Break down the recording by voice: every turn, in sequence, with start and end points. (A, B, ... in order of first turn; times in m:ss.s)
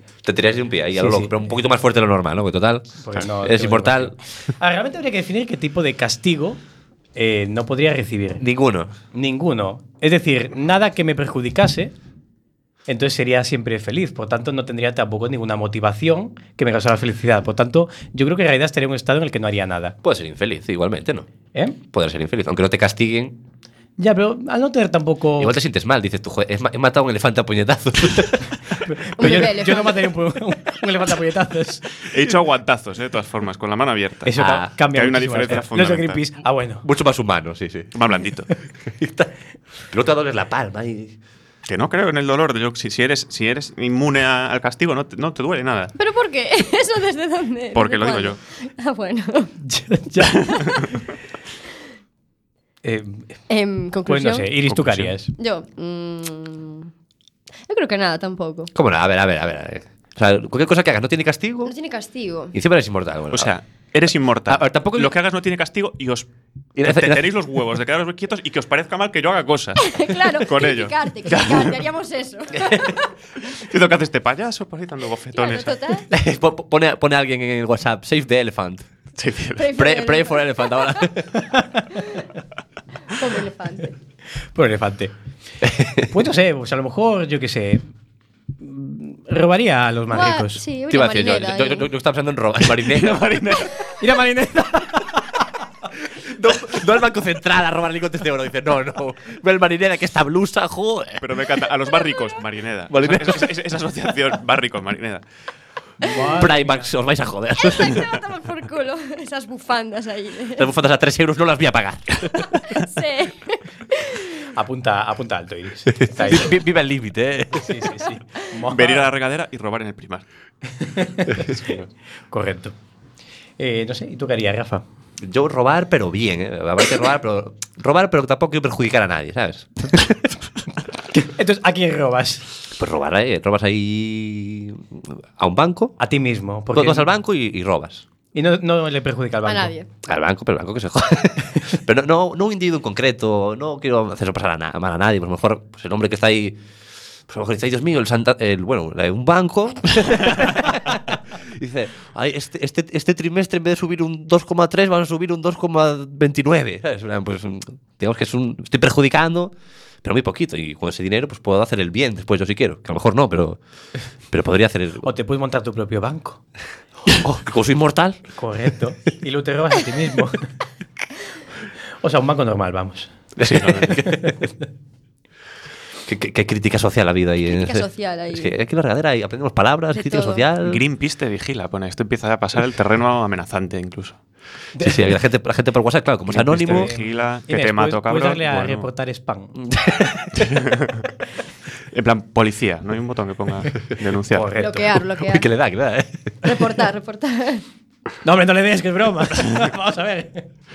0:00.2-0:04.1 A
0:01.0-0:01.5 B
0:03.0-0:06.6 B
0:07.1-0:08.4 B
0:08.4-0:08.9 A
0:09.1-0:11.9 B
0:12.9-0:20.0 B
0:20.0-0:21.3 A
0:21.9-0:23.4 A
0:24.0-0:25.6 B
0:25.4-0:28.6 A
0:28.8-0:31.8 B
0:29.2-0:30.1 C
0:32.0-0:36.2 D
0:34.2-0:36.8 B
0:34.4-0:34.7 A
0:36.8-0:37.9 A
0:37.9-0:38.5 D
0:38.8-0:39.3 A
0:39.9-0:41.2 A
0:41.6-0:45.9 D
0:46.0-0:49.5 C
0:47.7-0:48.4 D
0:49.6-0:50.9 B
0:50.5-0:50.9 D
0:52.8-0:53.2 B
0:53.5-0:54.5 C
0:54.0-0:55.3 B
0:55.4-0:56.9 C
0:57.7-0:58.7 C
0:58.7-1:01.7 A
1:01.6-1:02.5 C
1:02.5-1:03.5 A
1:03.3-1:06.3 D
1:04.5-1:05.1 A
1:06.8-1:07.6 A
1:06.8-1:11.7 D
1:09.8-1:13.0 C
1:13.5-1:15.8 D
1:15.3-1:16.0 C
1:16.1-1:18.8 A
1:19.2-1:19.7 D
1:19.6-1:21.1 C
1:19.8-1:21.4 A
1:21.4-1:21.8 B
1:23.1-1:23.9 C
1:24.5-1:25.1 B
1:25.6-1:26.0 A
1:26.0-1:27.8 B
1:28.6-1:30.6 B
1:30.1-1:31.9 C
1:30.9-1:33.7 A
1:33.1-1:33.7 D
1:34.0-1:35.4 B
1:36.2-1:41.5 A
1:41.2-1:45.2 D
1:42.9-1:43.6 A
1:46.0-1:46.9 B
1:46.3-1:48.0 A
1:47.6-1:50.7 C
1:50.6-1:52.8 A
1:52.6-1:54.4 C
1:54.5-1:56.6 B
1:55.9-1:58.0 A
1:57.6-1:59.1 B
1:58.7-2:00.2 D
2:00.8-2:01.5 B
2:01.3-2:01.9 D
2:02.3-2:02.7 B
2:03.6-2:04.8 B
2:05.2-2:10.3 A
2:11.1-2:12.5 B
2:12.8-2:16.0 A
2:16.0-2:17.1 B
2:16.7-2:18.0 A
2:18.3-2:19.7 B
2:19.4-2:19.9 C
2:20.0-2:26.6 A
2:27.3-2:43.6 A
2:44.3-2:45.1 A
2:45.0-2:46.4 B
2:47.1-2:48.2 A
2:48.4-2:50.5 B
2:52.0-2:53.1 B
2:53.4-2:54.3 A
2:53.4-2:54.0 D
2:54.0-2:54.3 B
2:56.0-3:00.8 A
2:57.4-2:58.5 C
2:59.9-3:00.4 C
3:00.6-3:04.2 D
3:04.7-3:05.2 B
3:04.8-3:06.9 A
3:06.3-3:10.4 B
3:06.5-3:08.9 D
3:10.5-3:11.0 D
3:11.9-3:14.5 D
3:14.3-3:15.0 B
3:14.6-3:15.5 C
3:15.0-3:16.5 A
3:16.4-3:17.6 C
3:18.2-3:20.5 B